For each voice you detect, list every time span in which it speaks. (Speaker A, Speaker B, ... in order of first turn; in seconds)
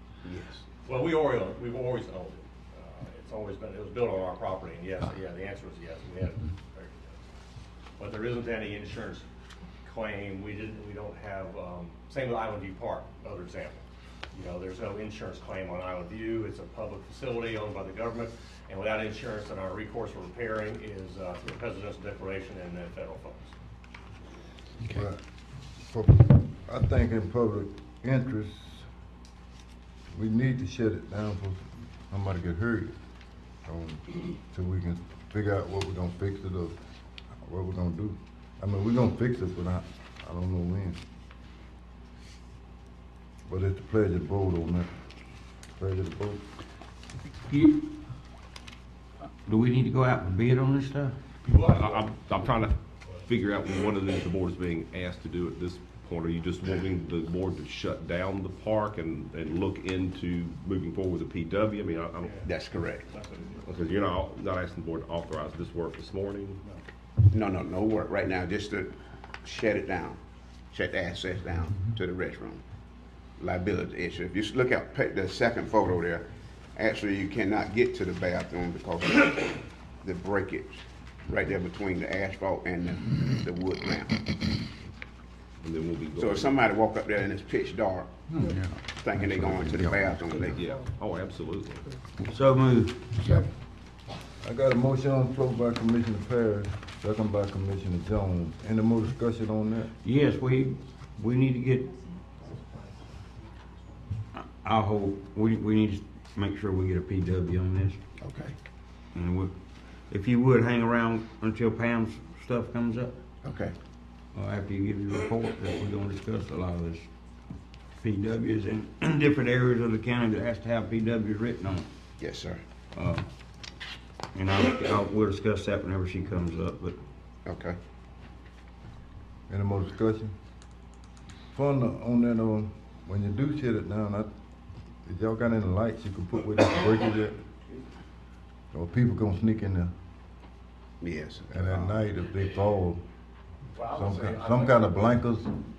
Speaker A: 0.2-0.6, 62.5-63.1, 67.3-70.2, 70.7-72.6, 73.4-84.4, 86.2-88.2, 89.0-90.7, 108.2-108.5, 113.4-113.8, 122.2-122.6, 127.5-127.8, 141.0-142.0
Speaker B: 0.8-7.2, 8.0-9.3, 9.8-23.6, 51.5-52.2, 63.1-63.6, 143.7-145.2
Speaker C: 24.9-25.2, 25.8-28.9, 30.1-32.9, 33.7-36.8, 37.4-41.0, 43.5-44.9, 45.8-46.4, 94.4-99.9, 129.5-130.3, 131.5-134.3, 135.1-137.4, 138.7-139.9, 141.5-143.0, 143.9-145.5
Speaker D: 47.5-47.8, 49.5-51.1, 92.3-93.1, 100.0-102.0, 104.3-108.0, 109.2-109.5, 110.1-113.2, 114.3-117.1, 118.0-121.9, 123.0-123.3, 124.3-127.0
Speaker E: 51.5-62.5, 63.6-66.6, 85.6-86.6, 90.5-91.9
Speaker F: 88.3-90.4